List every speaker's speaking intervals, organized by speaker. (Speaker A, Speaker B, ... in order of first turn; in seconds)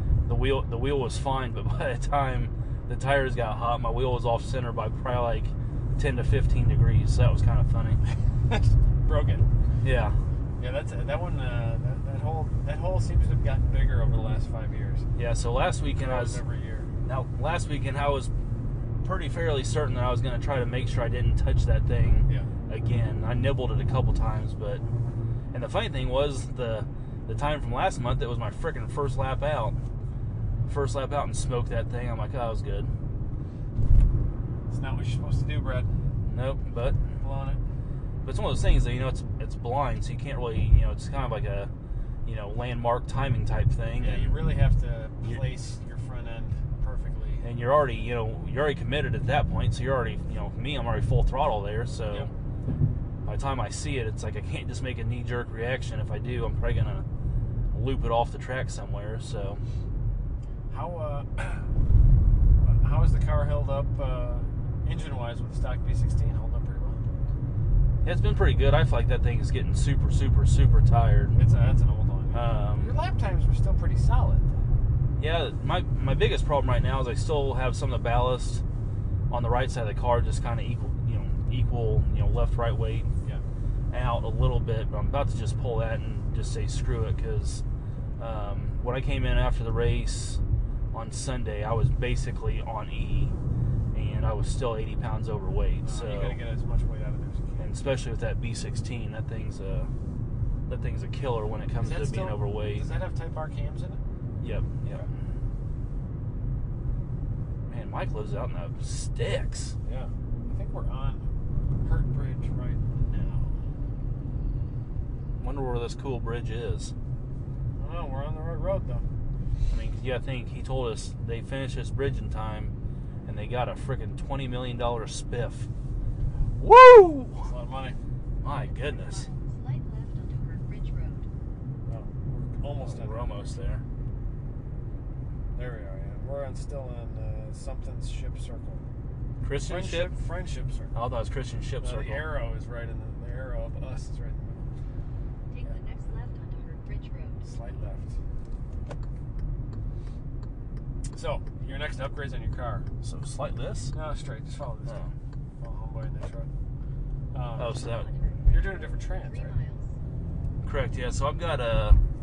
Speaker A: 0.3-8.0, 9.8-10.2, 15.2-16.4, 17.1-18.3, 19.0-24.8, 25.5-29.8, 30.7-32.9, 36.3-37.0, 38.2-41.7, 42.3-44.5, 47.4-52.3, 53.2-57.0, 57.7-59.6, 68.0-71.4, 72.3-72.9, 75.2-78.6, 79.3-83.1, 83.9-87.6, 88.2-90.4, 90.9-93.3, 93.9-96.4, 97.6-99.9, 100.7-102.9, 104.4-105.1, 107.7-109.8, 115.4-116.9, 119.7-122.7, 123.3-125.7, 126.6-127.5, 128.4-129.3, 132.7-133.8, 139.4-140.2, 140.9-142.4, 153.0-153.9, 154.9-155.1, 157.6-158.1, 160.6-162.0
Speaker B: 8.4-9.5, 10.6-15.1, 16.0-16.9, 34.7-35.9, 37.2-37.6, 44.0-47.5, 60.7-61.7, 62.6-67.0, 71.3-74.5, 95.8-97.7, 101.8-104.0, 109.8-111.3, 111.8-113.6, 117.8-119.0, 127.4-128.0, 131.9-133.6, 135.5-138.9, 139.6-141.0, 141.8-144.7, 147.4-148.2, 151.1-152.9, 153.9-156.5, 157.3-157.8, 158.5-159.6
Speaker C: 128.5-131.3, 145.5-147.5, 157.6-159.9